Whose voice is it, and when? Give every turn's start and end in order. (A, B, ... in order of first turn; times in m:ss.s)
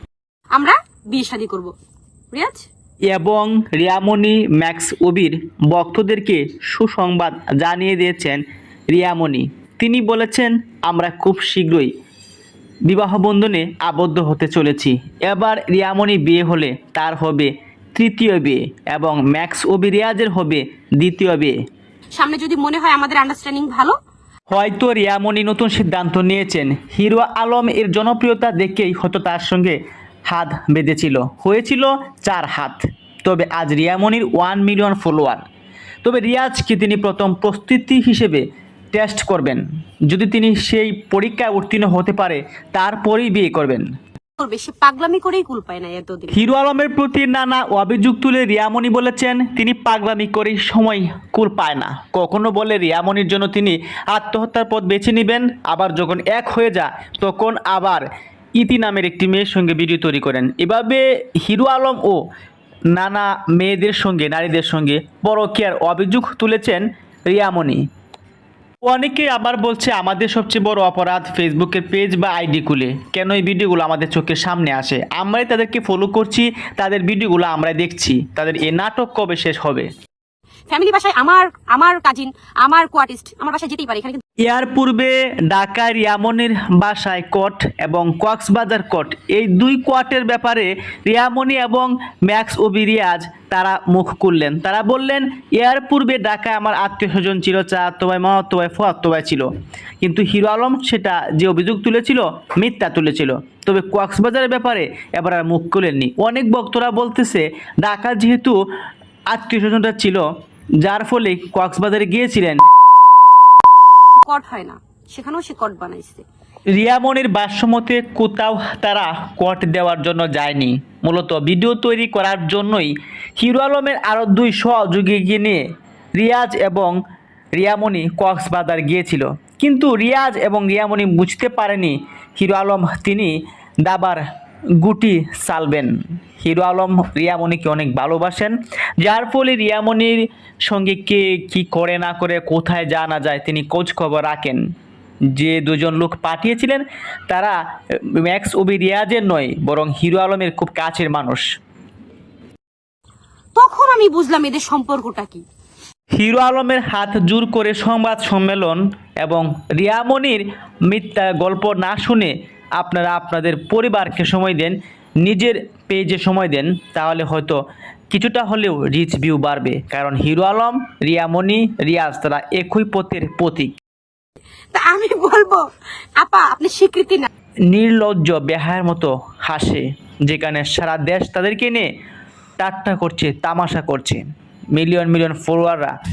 0:00.5-0:01.7 A
0:02.3-0:02.7 A
0:03.1-0:11.9 B
0:12.9-0:21.6 B
0:22.2-0:24.0 A
0:24.5-0:35.4 B
0:36.0-0:43.9 B
0:44.4-0:46.4 A
0:46.3-0:58.0 B
0:58.6-1:02.2 B
1:02.9-1:07.8 B
1:08.8-1:19.9 B
1:20.7-1:24.2 A
1:24.4-1:39.5 B
1:40.0-1:48.6 B
1:49.3-1:50.2 B
1:50.8-1:52.6 B
1:54.2-1:56.2 A
1:56.7-2:05.6 B
2:06.2-2:07.0 B
2:07.6-2:13.3 B
2:13.8-2:14.2 B
2:14.8-2:24.6 B
2:25.3-2:31.5 B
2:33.6-2:35.4 A
2:36.2-2:53.8 B
2:54.7-2:55.6 A
2:56.2-2:57.3 A
2:57.7-3:01.9 B
3:02.6-3:04.2 B
3:04.7-3:05.9 B